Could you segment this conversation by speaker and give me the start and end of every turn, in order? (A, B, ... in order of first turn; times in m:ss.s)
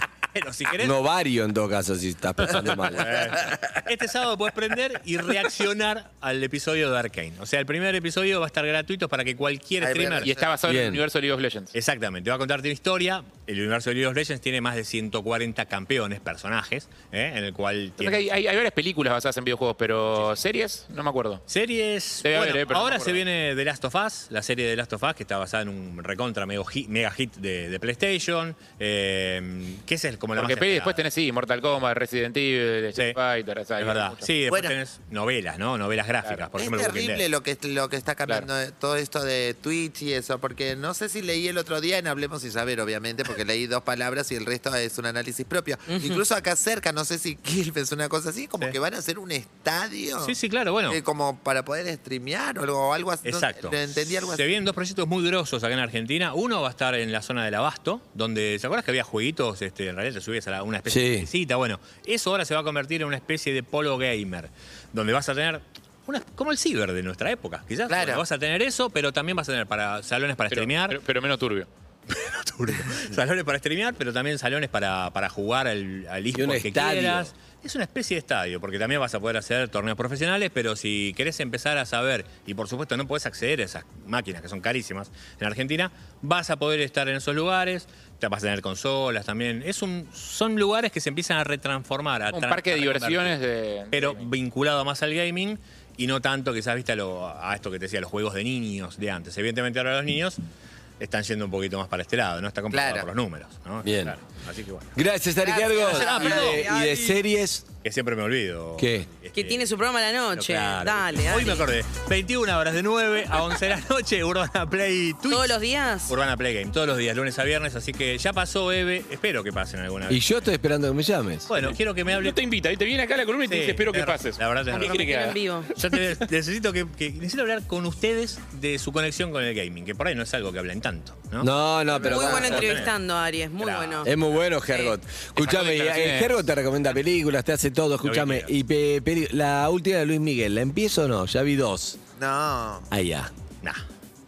0:00.3-0:00.9 A
0:00.8-0:03.3 B
0:02.9-0:10.3 A
0:09.8-0:10.5 C
0:10.2-0:11.7 D
0:10.6-0:11.0 B
0:11.7-0:18.2 A
0:18.0-0:21.4 D
0:21.5-0:31.0 A
0:22.2-0:23.2 D
0:30.3-0:34.3 D
0:33.8-0:37.2 A
0:34.5-0:34.8 C
0:36.2-0:36.5 D
0:36.6-0:54.4 C
0:45.9-0:46.2 E
0:50.2-0:51.0 A
0:53.2-1:11.0 A
1:00.9-1:01.3 B
1:07.9-1:08.2 C
1:10.5-1:11.7 D
1:12.1-1:33.4 A
1:16.3-1:17.3 B
1:32.3-1:34.2 D
1:33.9-1:40.4 A
1:41.0-1:44.9 A
1:42.7-1:43.1 C
1:43.8-1:44.2 B
1:44.9-1:47.6 B
1:45.4-1:47.2 E
1:45.8-1:46.7 A
1:45.9-1:46.4 C
1:47.8-1:49.7 A
1:48.8-1:49.1 B
1:49.3-1:51.7 E
1:50.3-2:00.3 A
1:55.3-1:56.2 E
2:00.1-2:01.6 B
2:01.5-2:02.4 A
2:02.0-2:05.4 D
2:03.4-2:05.0 A
2:04.7-2:05.7 E
2:05.8-2:11.5 A
2:11.4-2:12.7 B
2:11.9-2:12.8 C
2:12.0-2:14.1 E
2:12.4-2:12.9 A
2:13.6-2:14.1 A
2:14.0-2:22.0 B
2:14.7-2:15.0 E
2:15.4-2:16.5 D
2:18.0-2:18.5 A
2:22.2-2:22.9 C
2:22.9-2:23.3 B